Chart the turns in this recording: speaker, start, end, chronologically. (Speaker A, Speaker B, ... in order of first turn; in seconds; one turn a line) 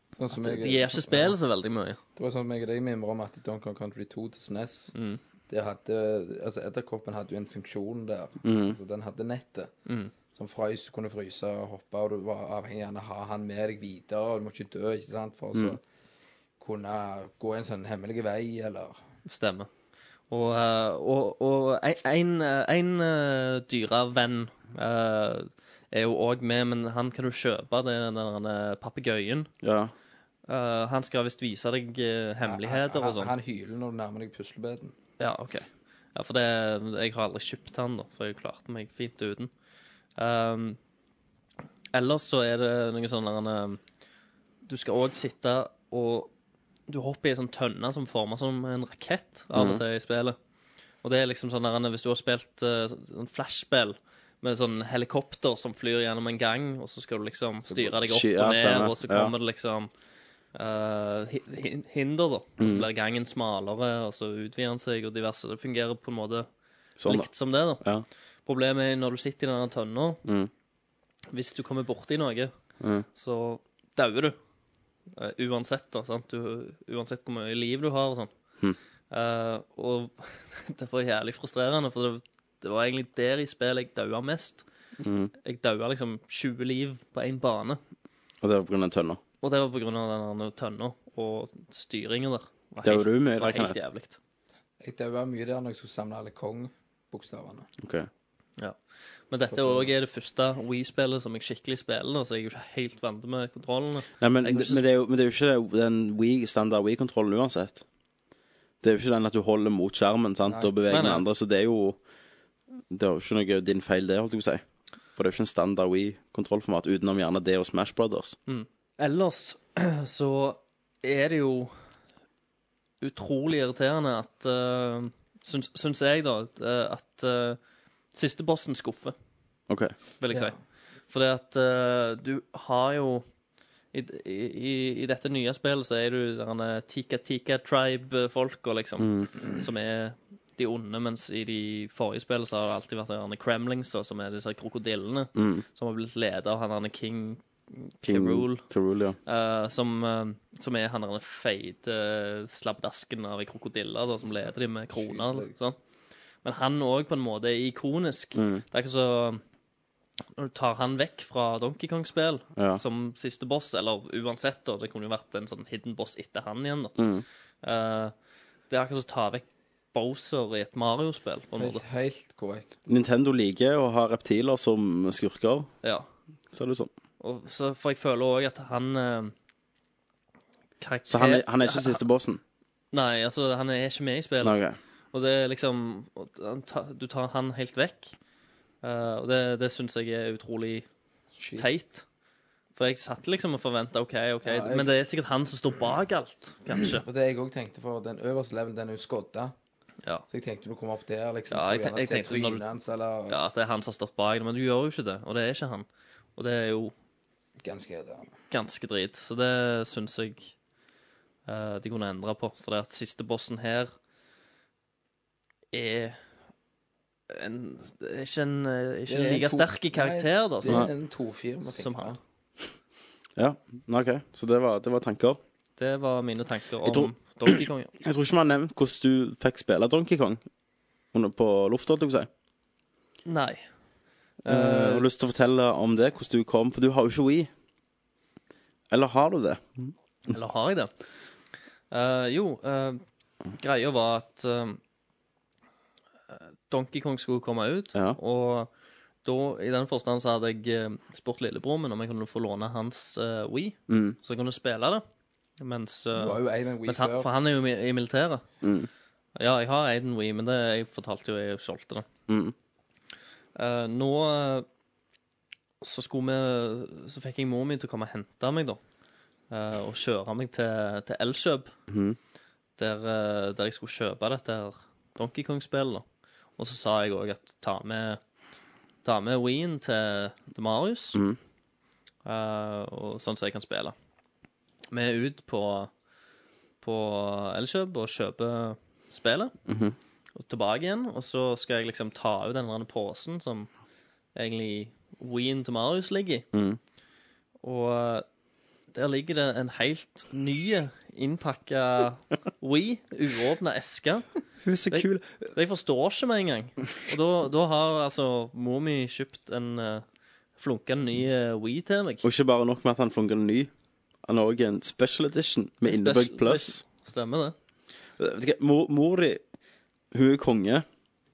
Speaker A: 0.2-1.4
Speaker B: 0.3-2.0
Speaker A: 2.2-4.9
Speaker B: 4.9-5.2
Speaker A: 5.5-9.7
Speaker C: 8.4-8.8
Speaker B: 9.9-10.1
Speaker A: 10.3-15.8
Speaker A: 16.6-19.0
Speaker B: 19.2-19.7
Speaker B: 20.3-29.5
Speaker C: 29.6-29.9
Speaker B: 30.5-33.3
Speaker A: 32.4-34.9
Speaker B: 35.2-39.5
Speaker B: 40.2-40.8
Speaker B: 41.9-43.8
Speaker B: 44.6-46.3
Speaker B: 46.9-50.4
Speaker C: 49.5-49.8
Speaker B: 51.0-59.9
Speaker C: 57.7-59.3
Speaker B: 60.5-66.5
Speaker C: 62.6-62.9
Speaker C: 67.0-67.3
Speaker B: 67.0-67.8
Speaker B: 68.5-70.2
Speaker C: 70.2-70.5
Speaker B: 71.3-72.5
Speaker C: 72.8-73.1
Speaker B: 73.2-74.4
Speaker B: 75.2-78.3
Speaker B: 79.1-84.7
Speaker C: 85.0-85.3
Speaker B: 85.4-87.8
Speaker C: 88.4-89.2
Speaker B: 89.4-94.2
Speaker C: 92.8-93.8
Speaker A: 94.8-97.7
Speaker C: 97.8-98.1
Speaker B: 99.3-104.8
Speaker A: 99.5-99.9
Speaker C: 104.2-107.8
Speaker C: 108.8-112.0
Speaker A: 110.5-110.7
Speaker B: 110.9-111.2
Speaker C: 112.9-114.6
Speaker C: 115.2-118.4
Speaker B: 118.5-121.7
Speaker B: 123.0-127.6
Speaker B: 128.1-129.2
Speaker C: 129.7-129.9
Speaker B: 130.2-130.6
Speaker B: 131.1-133.2
Speaker B: 133.9-148.7
Speaker C: 139.0-139.3
Speaker C: 145.3-145.6
Speaker C: 148.0-149.2
Speaker B: 149.3-155.8
Speaker A: 154.9-155.5
Speaker B: 156.4-159.4
Speaker C: 158.3-158.6
Speaker B: 160.4-166.9
Speaker C: 162.6-162.8
Speaker C: 167.0-167.2
Speaker B: 167.6-168.1
Speaker B: 168.7-171.8
Speaker A: 171.6-172.7
Speaker C: 172.9-175.7
Speaker C: 176.5-176.9
Speaker B: 177.2-179.3
Speaker B: 180.8-182.0
Speaker C: 181.1-182.4
Speaker B: 182.9-184.6
Speaker C: 184.4-184.8
Speaker B: 185.1-188.1
Speaker B: 188.8-190.9
Speaker A: 191.4-191.7
Speaker B: 191.6-192.0
Speaker B: 192.8-197.0
Speaker A: 194.4-194.9
Speaker A: 196.8-199.5
Speaker A: 200.3-203.4
Speaker B: 201.5-202.6
Speaker B: 203.3-206.9
Speaker A: 207.6-208.3
Speaker B: 208.5-210.5
Speaker B: 211.5-213.9
Speaker B: 215.7-216.2
Speaker B: 217.3-220.9
Speaker A: 219.1-222.2
Speaker C: 220.7-220.9
Speaker B: 221.8-222.2
Speaker C: 223.4-225.4
Speaker B: 225.8-227.9
Speaker C: 226.8-230.4
Speaker C: 231.1-232.3
Speaker B: 233.3-233.6
Speaker B: 234.4-235.1
Speaker C: 234.5-237.5
Speaker C: 238.9-239.9
Speaker B: 240.3-240.9
Speaker B: 241.9-243.0
Speaker B: 243.6-244.8
Speaker B: 246.3-248.7
Speaker B: 249.2-255.0
Speaker C: 253.9-254.2
Speaker B: 255.6-258.4
Speaker A: 256.1-257.3
Speaker C: 258.6-258.9
Speaker B: 259.4-262.1
Speaker C: 262.3-262.5
Speaker B: 263.6-264.7
Speaker B: 265.8-268.8
Speaker B: 269.5-271.7
Speaker C: 271.9-272.2
Speaker B: 272.8-276.1
Speaker B: 276.6-278.2
Speaker B: 279.0-281.2
Speaker B: 282.2-283.9
Speaker B: 284.9-285.9
Speaker B: 286.8-289.5
Speaker C: 289.7-289.9
Speaker B: 290.4-293.7
Speaker B: 294.4-296.5
Speaker C: 296.5-296.8
Speaker B: 297.6-298.3
Speaker B: 298.9-304.3
Speaker C: 304.6-305.5
Speaker B: 304.9-310.0
Speaker B: 310.6-312.2
Speaker C: 312.2-313.7
Speaker C: 314.3-316.8
Speaker B: 315.8-317.6
Speaker C: 318.2-319.4
Speaker C: 320.1-320.9